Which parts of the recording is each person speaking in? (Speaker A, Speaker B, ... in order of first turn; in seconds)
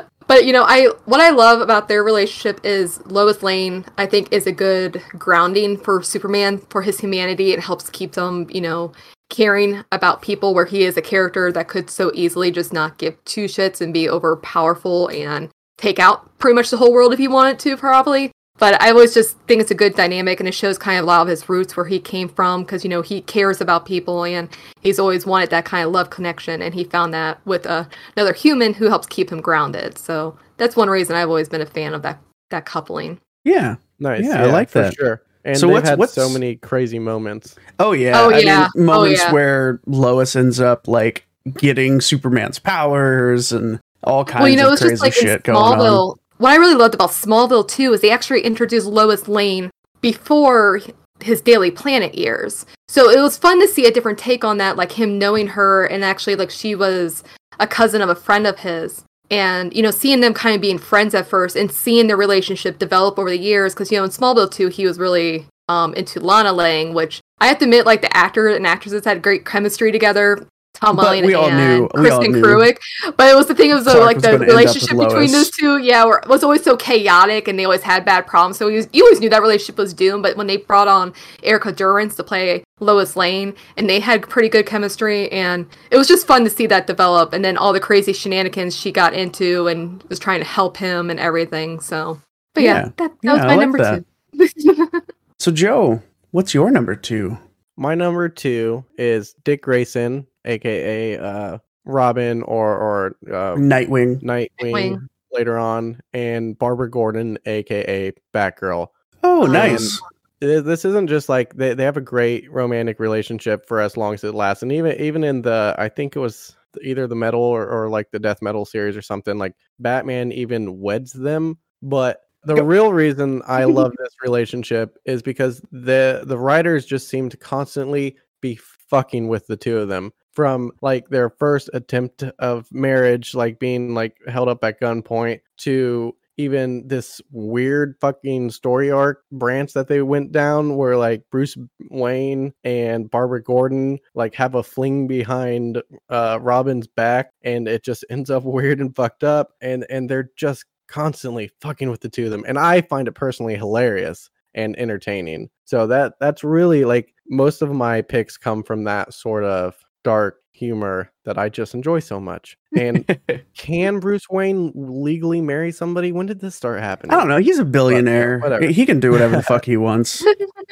Speaker A: 0.3-33.2, 38.1-39.4, 44.4-95.0, 104.6-105.0, 109.4-110.0
Speaker B: 33.4-35.0, 35.5-36.4, 37.8-46.0, 70.9-72.7, 73.8-75.5, 92.6-94.0, 95.4-97.4, 103.5-104.2, 109.2-110.0, 162.9-163.4, 167.1-170.3
Speaker C: 34.0-37.6, 97.8-103.7, 104.2-108.9, 109.5-167.3, 167.9-169.6